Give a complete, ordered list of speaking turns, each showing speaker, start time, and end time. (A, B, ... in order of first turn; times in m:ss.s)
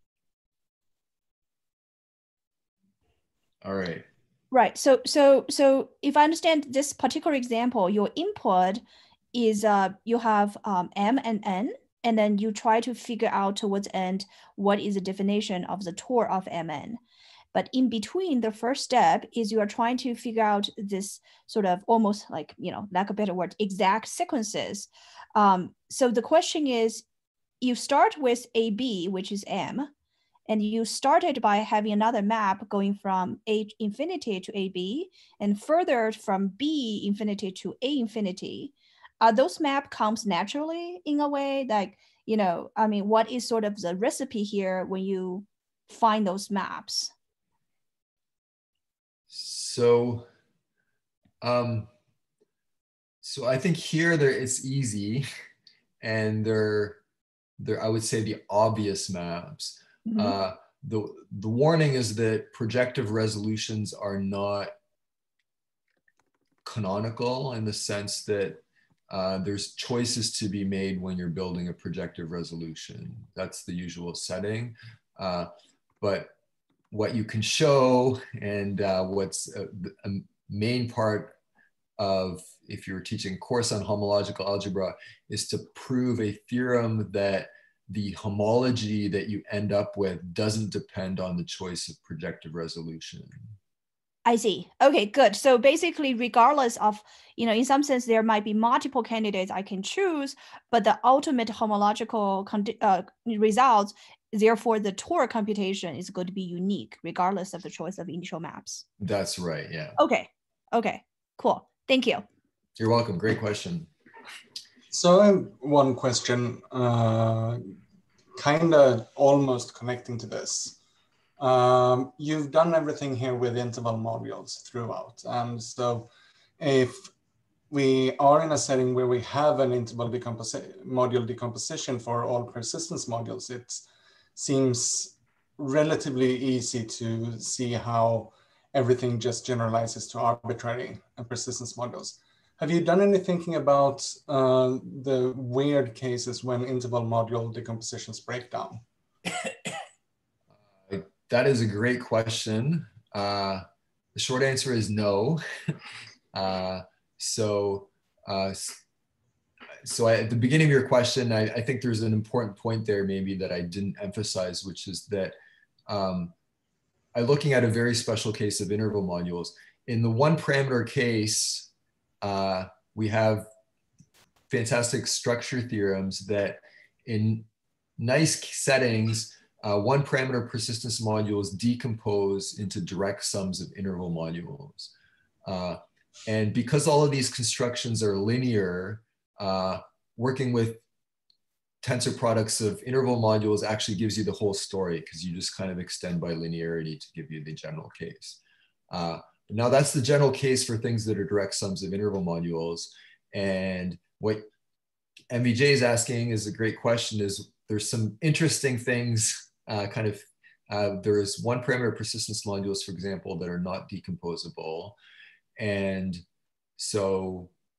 0:03.6-0:04.0 A
0:04.5-0:08.8 B
0:09.3-0:17.0 B
0:17.5-0:27.0 B
0:27.6-0:29.9 B
0:30.5-0:47.1 B
0:49.3-0:50.3 A
0:51.4-0:51.9 A
0:53.2-0:55.2 A
0:56.0-0:57.0 A
0:57.6-1:04.7 A
1:06.6-1:15.5 A
1:16.0-1:16.3 A
1:16.9-1:21.4 A
1:22.0-1:33.5 A
1:34.2-1:48.8 B
1:49.0-1:50.0 A
1:50.0-1:52.2 B
1:52.8-1:53.9 A
1:54.9-1:57.7 C
1:58.3-2:00.8 C
2:01.4-2:07.1 C
2:07.7-2:28.8 C
2:30.9-2:33.6 A
2:34.1-2:35.4 A
2:36.3-2:38.8 A
2:39.8-2:45.3 A
2:45.9-2:46.3 A
2:47.1-2:51.7 A
2:52.2-2:53.5 A
2:54.5-3:04.9 A
3:05.4-3:10.8 A
3:11.8-3:24.4 A
3:25.3-3:35.0 A
3:35.6-3:36.2 A
3:36.8-3:37.5 A